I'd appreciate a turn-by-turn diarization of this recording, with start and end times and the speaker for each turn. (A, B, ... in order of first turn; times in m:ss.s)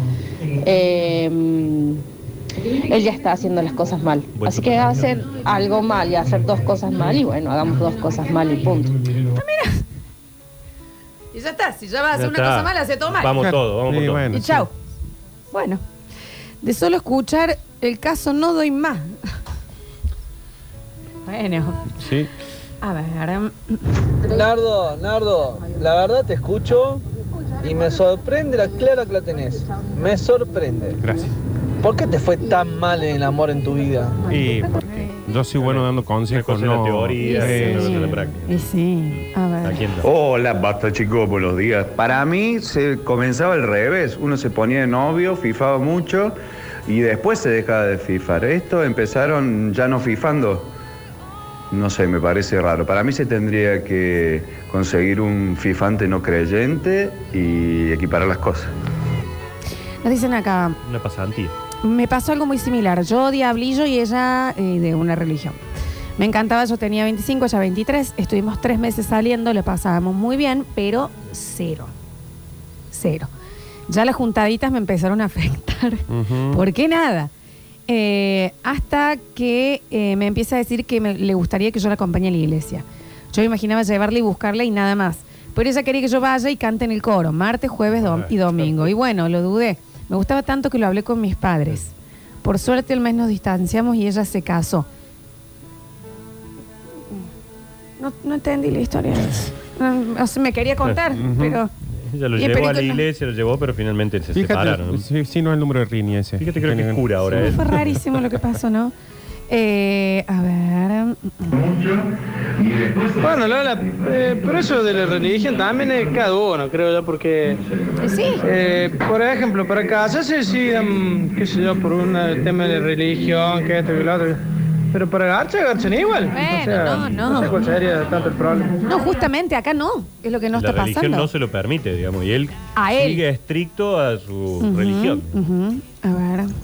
0:00.6-0:02.0 A
0:02.8-0:09.1 A
0:04.3-0:05.0 B
0:09.3-0:09.8 C
0:11.3-0:13.3 C
0:12.1-0:14.3 B
0:13.4-0:14.7 D
0:14.3-0:14.7 C
0:15.5-0:15.8 C
0:16.6-0:19.2 C
0:21.2-0:21.9 C
0:22.0-0:22.3 D
0:22.8-0:23.8 C
0:24.2-0:27.0 E
0:27.6-0:31.0 E
0:31.0-0:31.3 D
0:31.8-0:34.2 E
0:34.3-0:38.0 D
0:35.6-0:38.6 B
0:37.2-0:39.8 C
0:39.1-0:40.0 B
0:40.0-0:46.4 F
0:46.9-0:50.7 F
0:51.7-0:58.7 F
1:00.0-1:00.8 C
1:00.8-1:01.5 B
1:01.8-1:05.6 C
1:06.2-1:11.9 C
1:12.9-1:13.3 C
1:13.9-1:17.3 C
1:16.1-1:16.6 D
1:17.9-1:31.9 C
1:27.9-1:28.9 B
1:32.4-1:34.9 C
1:38.0-1:41.7 C
1:41.2-1:41.6 D
1:42.0-1:45.0 B
1:42.4-1:43.0 C
1:44.3-1:47.0 D
1:46.4-1:47.9 B
1:47.3-1:48.9 C
1:49.5-1:51.6 C
1:53.1-1:57.6 G
1:58.0-1:58.4 C
1:58.4-2:04.4 G
2:04.9-2:08.7 G
2:06.3-2:07.6 C
2:08.8-2:11.3 C
2:10.5-2:15.4 B
2:12.8-2:13.2 C
2:14.6-2:16.5 C